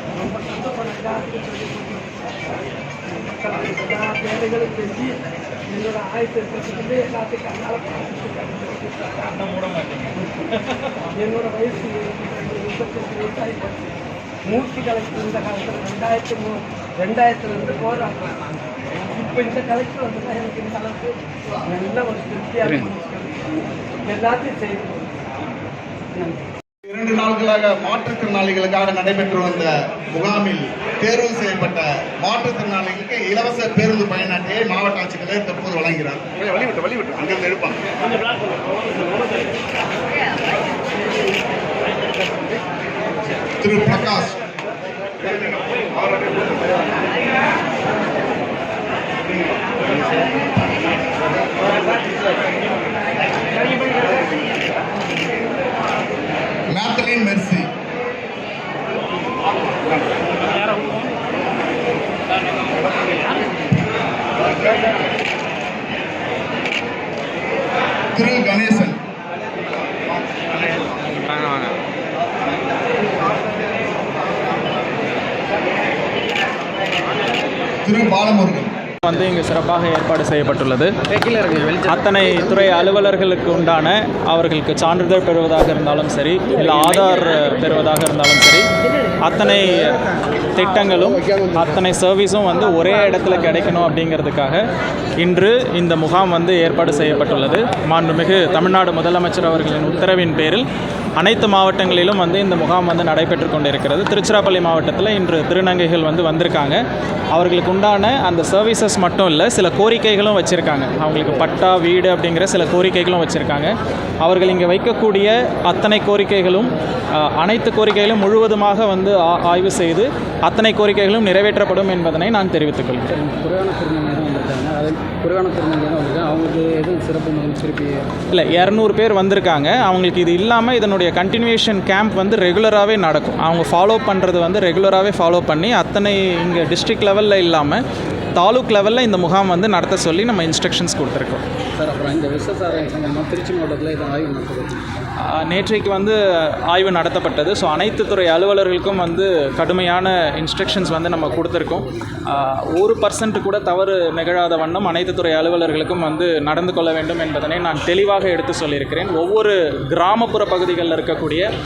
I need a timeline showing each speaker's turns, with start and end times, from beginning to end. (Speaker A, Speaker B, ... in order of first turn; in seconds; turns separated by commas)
Speaker A: 0.6-2.0, Speaker A: 3.4-5.2, Speaker A: 5.7-8.8, Speaker B: 9.1-11.0, Speaker A: 11.2-13.8, Speaker A: 14.4-18.4, Speaker A: 19.1-23.1, Speaker A: 24.0-25.1, Speaker C: 26.9-38.0, Speaker C: 43.6-44.4, Speaker C: 56.7-57.7, Speaker C: 68.1-69.0, Speaker D: 71.2-71.7, Speaker C: 77.8-78.8, Speaker B: 79.0-81.0, Speaker D: 81.1-82.5, Speaker B: 81.8-88.7, Speaker B: 89.2-94.6, Speaker B: 95.2-100.7, Speaker B: 101.2-123.1, Speaker D: 123.1-128.1, Speaker B: 128.3-137.8, Speaker B: 138.4-141.4, Speaker D: 141.8-145.1, Speaker B: 145.3-161.5